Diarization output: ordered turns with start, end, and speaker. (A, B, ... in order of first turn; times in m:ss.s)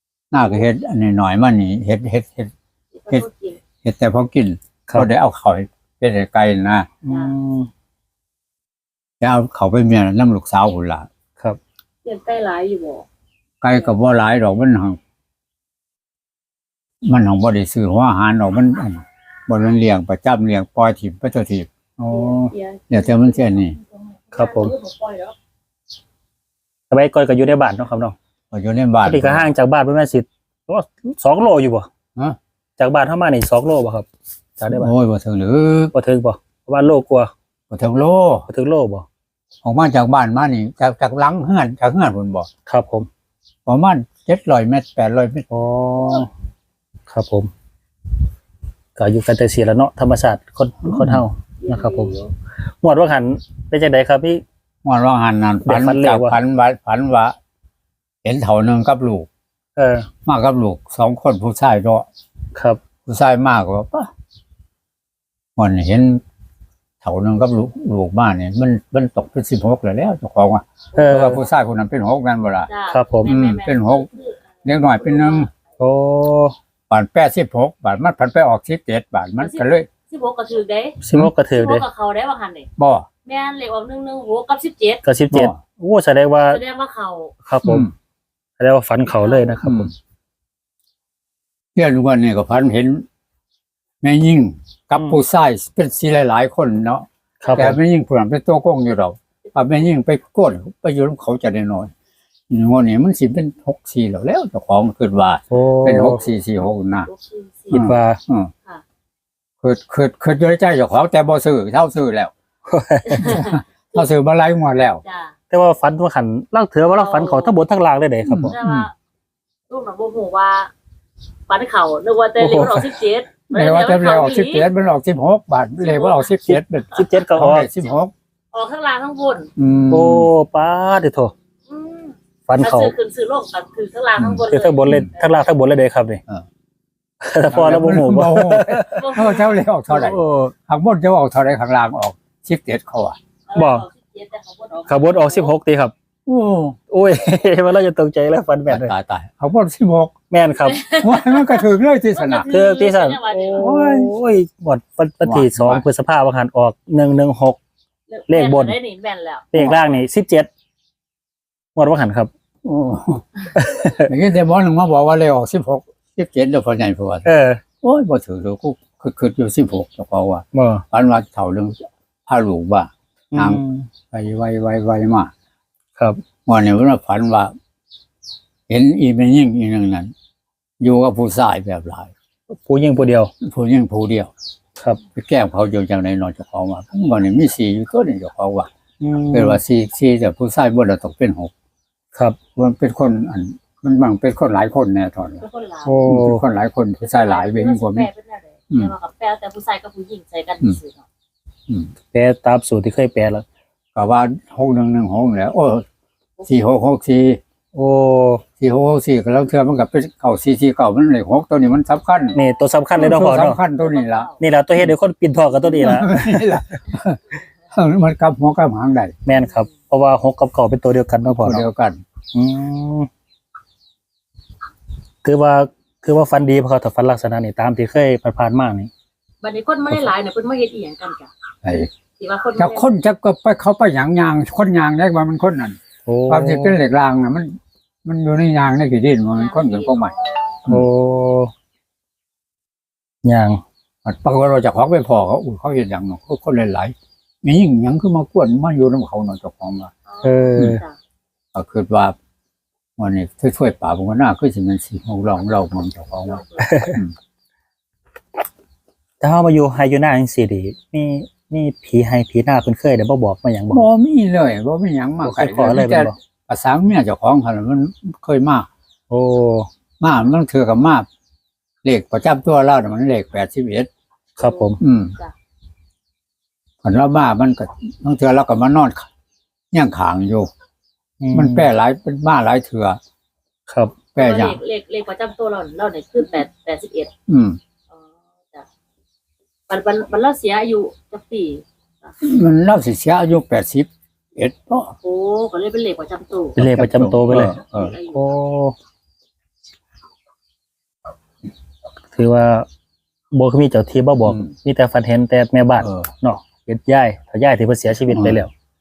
0:00.3-0:02.5 A
0:02.9-0:03.6 B
0:03.8-0:06.9 A
0:07.0-0:07.7 C
0:07.1-0:07.4 B
0:09.2-0:11.1 A
0:12.0-0:13.1 B
0:13.6-0:15.0 A
0:17.0-0:21.7 A
0:22.0-0:22.5 C
0:22.1-0:23.4 B
0:22.9-0:23.8 A
0:24.3-0:25.3 B
0:24.3-0:24.7 C
0:26.9-0:28.2 C
0:28.5-0:29.5 A
0:29.0-0:31.9 C
0:32.8-0:34.1 C
0:34.6-0:34.9 C
0:34.7-0:35.9 A
0:35.9-0:37.3 C
0:37.7-0:38.5 A
0:38.5-0:39.1 C
0:39.6-0:42.5 A
0:42.7-0:43.1 C
0:43.7-0:45.5 A
0:45.5-0:46.3 C
0:47.1-0:47.5 C
0:49.0-0:52.1 C
0:50.8-0:51.2 A
0:51.6-0:52.3 B
0:52.8-0:54.4 C
0:54.8-0:57.4 A
0:55.7-0:56.4 C
0:58.2-0:59.3 A
0:59.8-1:00.1 C
1:00.2-1:02.1 A
1:02.6-1:02.8 C
1:03.1-1:04.1 A
1:05.6-1:06.2 A
1:07.0-1:12.7 A
1:10.9-1:11.4 C
1:12.7-1:15.5 B
1:12.9-1:13.3 C
1:13.3-1:14.1 A
1:14.6-1:15.5 A
1:15.8-1:16.6 C
1:16.9-1:19.9 A
1:19.4-1:22.7 B
1:21.0-1:21.8 C
1:21.0-1:21.3 A
1:22.8-1:23.1 A
1:23.2-1:25.0 B
1:25.0-1:26.6 C
1:25.3-1:25.6 A
1:26.5-1:27.4 B
1:27.4-1:27.9 C
1:27.6-1:27.9 A
1:28.6-1:29.9 C
1:29.1-1:29.6 B
1:29.6-1:29.9 A
1:31.8-1:33.1 A
1:34.0-1:41.9 A
1:37.4-1:37.8 C
1:39.4-1:39.8 B
1:42.5-1:47.1 A
1:45.5-1:46.2 C
1:47.1-1:47.8 B
1:47.7-1:48.2 C
1:47.7-1:48.5 A
1:49.6-1:52.3 A
1:52.7-1:53.4 C
1:53.1-1:53.6 B
1:53.2-1:55.0 A
1:55.0-1:55.3 B
1:55.5-1:58.6 C
1:56.9-1:57.6 B
1:58.3-1:58.9 A
1:58.4-1:58.9 B
1:59.7-2:00.7 B
2:01.5-2:04.7 B
2:02.4-2:03.0 C
2:03.5-2:08.1 A
2:05.8-2:06.3 B
2:06.5-2:07.7 C
2:08.5-2:09.5 B
2:09.6-2:10.3 A
2:09.9-2:11.3 C
2:11.7-2:15.3 B
2:12.5-2:12.9 C
2:14.2-2:15.1 A
2:14.5-2:16.2 C
2:17.2-2:19.2 C
2:17.5-2:23.2 A
2:19.0-2:19.5 B
2:19.9-2:20.5 C
2:23.5-2:25.5 B
2:23.5-2:23.9 C
2:24.9-2:25.9 C
2:26.3-2:26.8 A
2:26.9-2:28.9 C
2:28.7-2:30.2 A
2:30.3-2:30.8 C
2:30.6-2:33.7 B
2:30.9-2:32.5 A
2:32.5-2:37.6 C
2:33.6-2:34.1 A
2:35.2-2:35.8 A
2:38.1-2:39.8 B
2:38.3-2:38.8 C
2:39.5-2:40.5 C
2:41.8-2:42.3 C
2:42.6-2:47.3 A
2:43.6-2:44.1 C
2:47.3-2:47.6 C
2:47.8-2:55.3 A
2:50.5-2:50.8 C
2:53.3-2:53.9 C
2:56.5-2:57.5 A
2:58.7-3:00.1 A
3:00.8-3:02.1 A
3:02.5-3:03.3 C
3:03.4-3:04.3 A
3:05.2-3:08.7 A
3:09.0-3:09.6 C
3:09.3-3:11.5 A
3:12.6-3:15.4 A
3:15.4-3:16.1 B
3:15.8-3:16.4 C
3:16.1-3:18.1 A
3:17.0-3:21.0 B
3:22.1-3:23.4 C
3:24.0-3:25.8 A
3:26.4-3:27.4 A
3:27.7-3:28.4 C
3:28.6-3:32.4 A
3:32.4-3:33.6 C
3:33.0-3:34.3 A
3:33.8-3:34.4 B
3:34.4-3:36.6 C
3:35.6-3:39.2 A
3:39.3-3:41.6 C
3:41.3-3:42.0 A
3:42.3-3:43.1 C
3:45.2-3:48.9 C
3:49.4-3:51.3 B
3:51.6-3:51.9 A
3:52.2-3:52.9 B
3:52.6-3:55.8 A
3:56.1-3:56.8 C
3:56.3-4:00.1 A
3:59.3-4:00.6 B
4:00.7-4:01.5 C
4:03.2-4:03.6 C
4:04.0-4:09.9 A
4:10.1-4:11.0 B
4:10.2-4:10.8 C
4:11.5-4:12.2 A
4:13.0-4:17.1 A
4:16.3-4:16.7 B
4:16.6-4:17.0 C
4:19.2-4:23.9 C
4:23.7-4:28.7 A
4:25.2-4:26.2 C
4:29.1-4:29.7 C
4:30.0-4:31.1 A
4:31.8-4:33.9 A
4:34.4-4:35.3 B
4:34.4-4:34.8 C
4:34.8-4:35.1 A
4:36.8-4:39.1 A
4:39.7-4:40.5 A
4:41.2-4:41.7 C
4:41.3-4:43.0 A
4:43.7-4:44.0 C
4:44.2-4:44.6 A
4:44.2-4:47.1 B
4:47.3-4:47.6 A
4:47.9-4:48.7 B
4:49.7-4:52.1 B
4:52.2-4:55.0 A
4:55.0-4:56.6 B
4:56.6-4:57.6 C
4:56.6-4:57.9 A
4:57.3-4:58.3 B
4:58.1-4:58.8 C
5:02.1-5:02.7 C
5:03.3-5:08.5 C
5:04.2-5:04.6 A
5:05.8-5:06.1 A
5:08.1-5:08.4 A